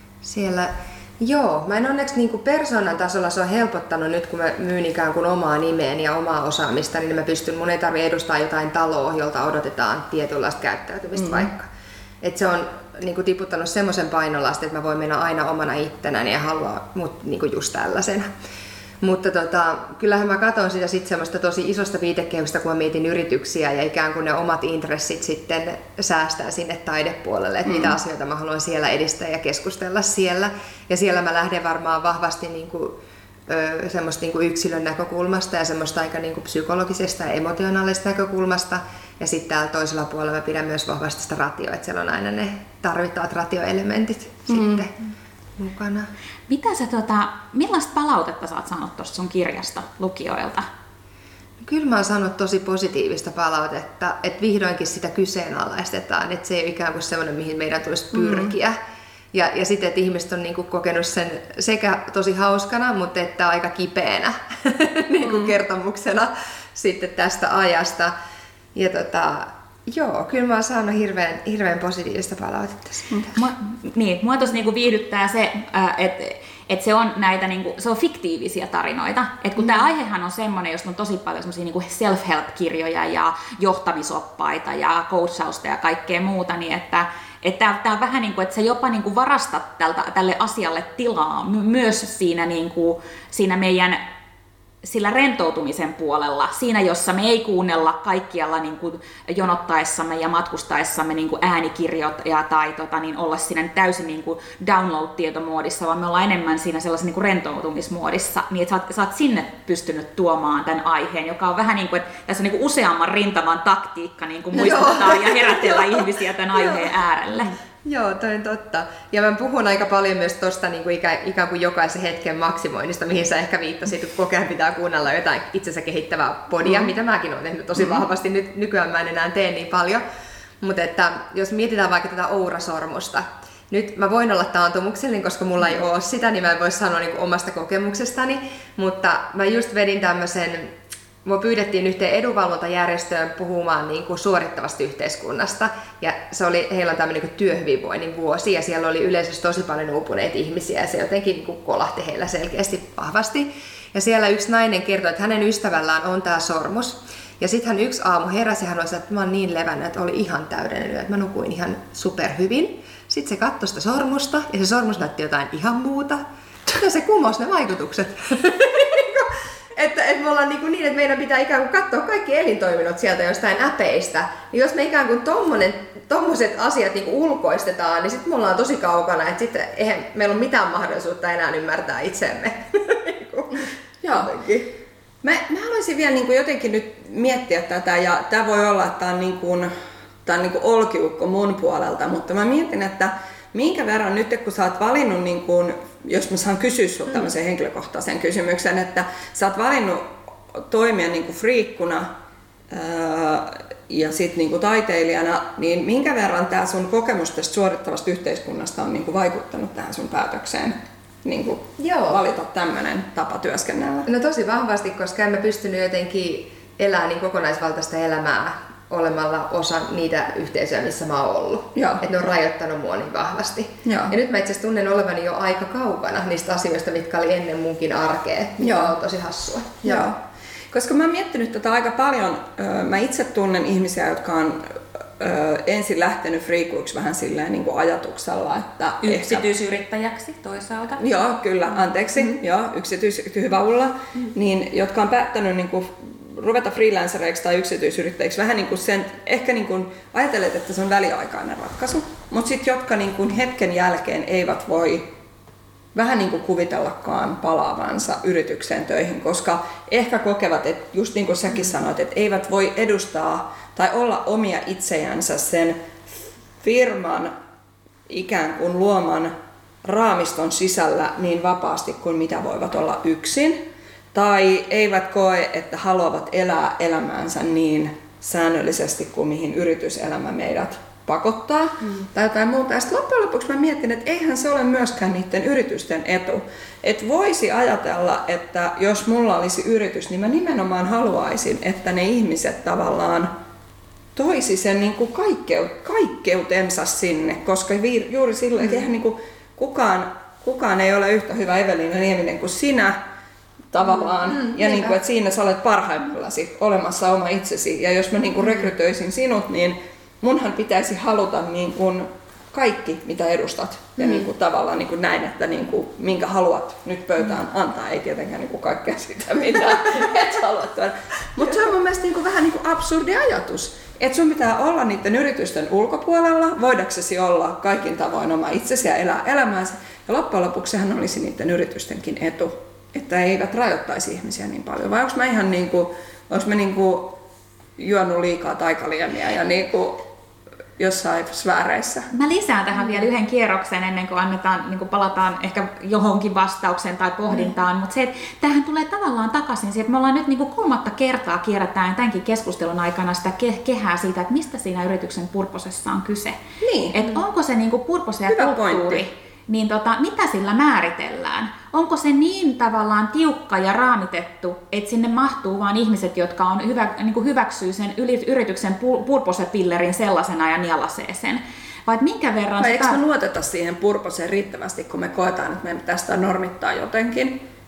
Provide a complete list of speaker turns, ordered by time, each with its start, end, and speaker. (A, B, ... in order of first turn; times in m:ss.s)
0:00.2-0:11.7 A
0:11.2-0:11.5 B
0:12.2-0:18.3 A
0:19.0-0:45.0 A
0:27.6-0:28.0 B
0:44.5-0:44.8 B
0:45.6-0:46.1 A
0:46.5-0:50.7 C
0:51.6-0:58.8 A
0:58.1-0:58.5 B
0:59.3-1:08.1 A
1:05.2-1:05.5 B
1:08.7-1:13.2 A
1:13.3-1:34.0 C
1:34.8-1:57.6 C
1:54.6-1:55.9 A
1:56.6-1:56.8 A
1:57.8-2:10.0 A
2:10.6-2:20.7 A
2:21.2-3:03.6 A
3:04.0-3:04.3 B
3:04.2-3:04.7 A
3:05.2-3:09.7 B
3:10.2-3:22.1 B
3:22.7-3:34.1 B
3:31.8-3:32.2 A
3:34.0-3:50.1 A
3:41.8-3:42.0 B
3:43.8-3:44.1 B
3:48.6-3:48.9 B
3:49.8-3:50.2 B
3:50.7-3:59.4 B
3:59.0-4:01.0 C
4:01.0-4:15.0 B
4:15.9-4:27.3 B
4:28.1-4:29.3 B
4:29.8-4:33.6 B
4:34.1-4:53.3 B
4:54.2-5:03.0 B
5:03.7-5:37.2 B
5:37.8-5:40.0 B
5:40.8-5:42.1 B
5:42.1-5:56.4 C
5:56.6-5:57.0 B
5:56.9-6:13.0 C
5:58.3-5:59.0 B
6:12.6-6:17.4 B